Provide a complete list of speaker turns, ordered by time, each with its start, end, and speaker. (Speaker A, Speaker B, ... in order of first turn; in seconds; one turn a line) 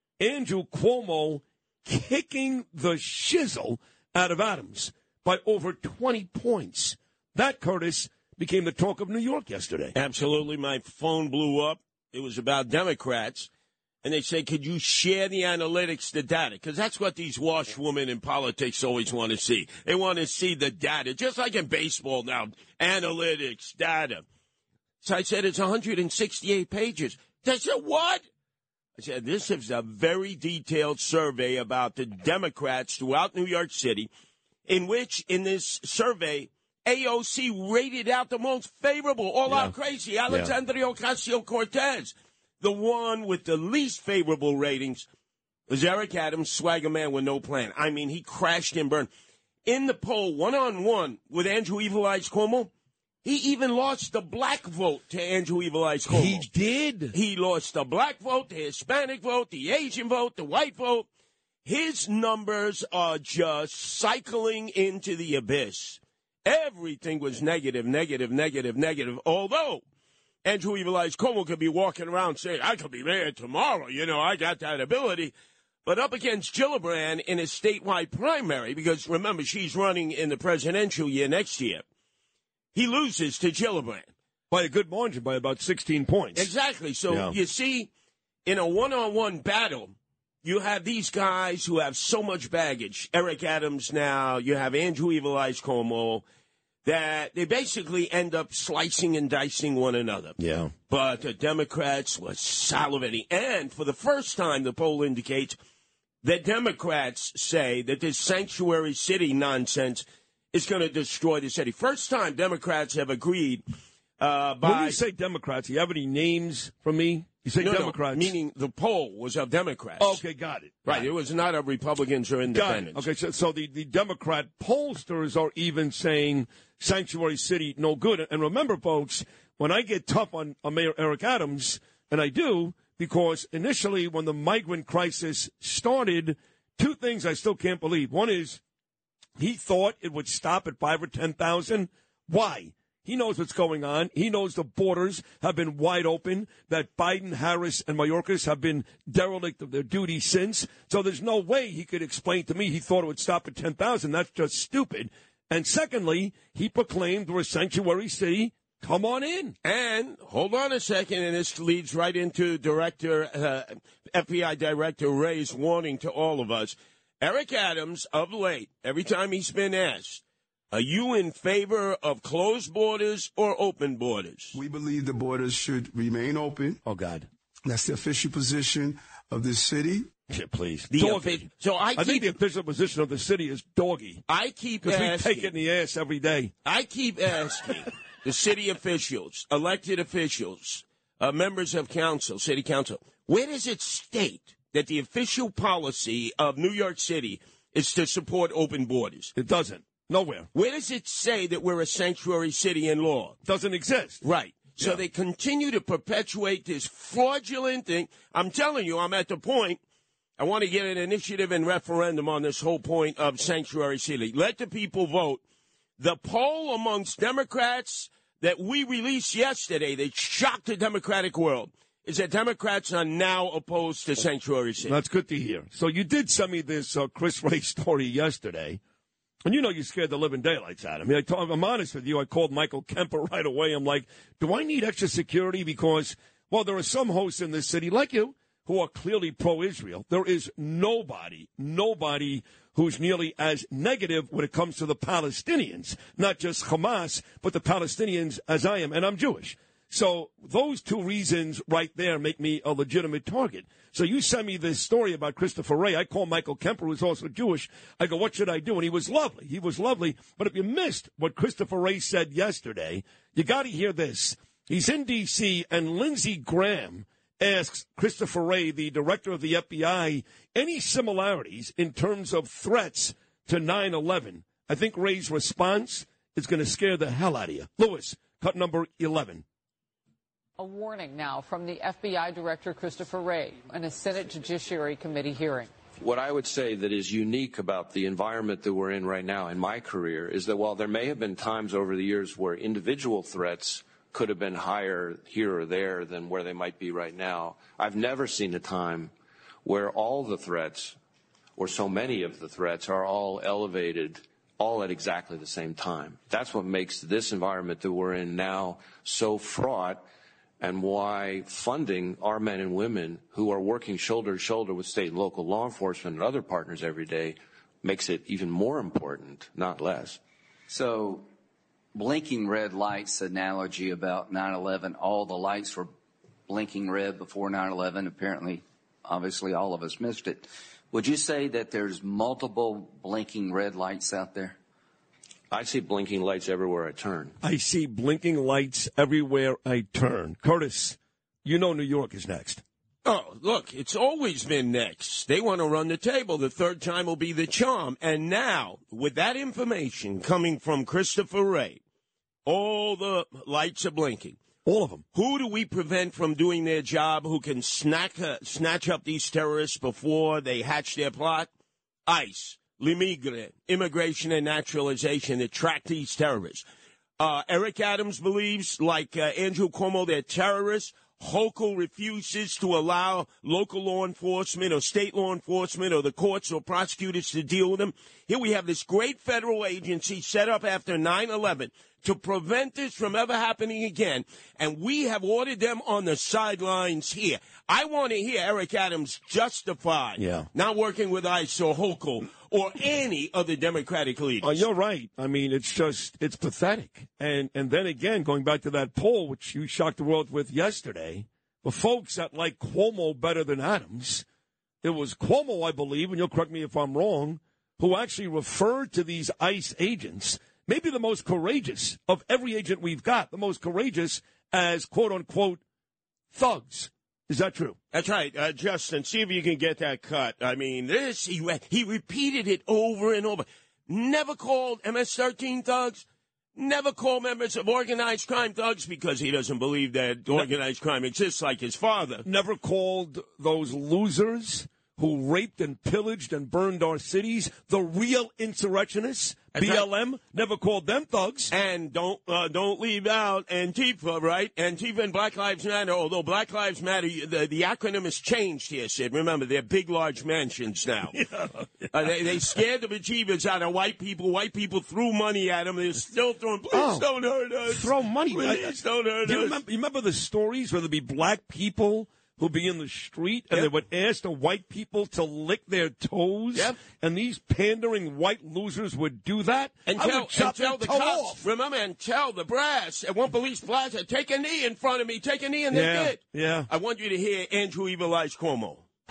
Speaker A: 0.2-9.9
Speaker B: 9.9-13.5
Speaker B: 14.0-24.2
Speaker B: 25.0-28.2
Speaker B: 29.0-34.1
Speaker B: 34.7-45.1
Speaker A: 39.5-39.7
Speaker A: 40.3-40.5
Speaker B: 45.7-49.1
Speaker B: 49.6-52.7
Speaker B: 53.2-56.5
Speaker A: 56.1-57.1
Speaker B: 57.1-61.1
Speaker B: 61.6-69.8
Speaker B: 70.4-75.3
Speaker B: 75.8-81.8
Speaker B: 82.7-84.1
Speaker A: 84.5-86.5
Speaker B: 86.3-87.9
Speaker A: 87.1-87.4
Speaker B: 88.5-96.2
Speaker B: 96.8-100.4
Speaker A: 100.4-100.7
Speaker B: 100.9-105.6
Speaker B: 106.2-113.6
Speaker B: 114.2-115.0
Speaker A: 114.6-118.3
Speaker B: 117.6-120.2
Speaker A: 120.0-121.1
Speaker B: 120.8-123.1
Speaker A: 122.5-138.6
Speaker A: 139.4-159.6
Speaker B: 159.6-174.6
Speaker C: 174.5-176.8
Speaker A: 176.8-177.3
Speaker C: 177.7-180.1
Speaker A: 180.3-184.3
Speaker B: 180.9-182.3
Speaker B: 184.3-185.5
Speaker A: 184.8-186.5
Speaker B: 186.7-199.3
Speaker A: 199.3-200.5
Speaker B: 200.5-203.4
Speaker A: 203.4-204.2
Speaker B: 204.2-209.8
Speaker B: 210.4-215.4
Speaker B: 216.0-225.0
Speaker A: 224.8-228.8
Speaker A: 229.5-279.4
Speaker D: 280.6-285.7
Speaker E: 286.0-299.1
Speaker E: 299.6-301.0
Speaker E: 301.6-310.0
Speaker E: 310.6-320.2
Speaker F: 320.7-321.3
Speaker F: 321.9-325.9
Speaker F: 326.5-334.6
Speaker E: 335.5-337.3
Speaker A: 337.4-342.6
Speaker B: 343.1-351.8
Speaker B: 352.4-354.4
Speaker A: 354.6-355.0
Speaker B: 355.1-361.5
Speaker B: 362.1-366.6
Speaker B: 367.2-394.6
Speaker A: 390.2-390.5
Speaker A: 394.4-404.2
Speaker A: 404.8-415.6
Speaker A: 416.3-417.8
Speaker B: 417.9-432.3
Speaker A: 432.2-441.5
Speaker B: 439.5-439.9
Speaker B: 441.5-451.2
Speaker A: 451.1-452.4
Speaker B: 451.9-459.6
Speaker A: 456.7-457.1
Speaker A: 457.7-471.4
Speaker B: 469.9-478.8
Speaker A: 475.7-476.7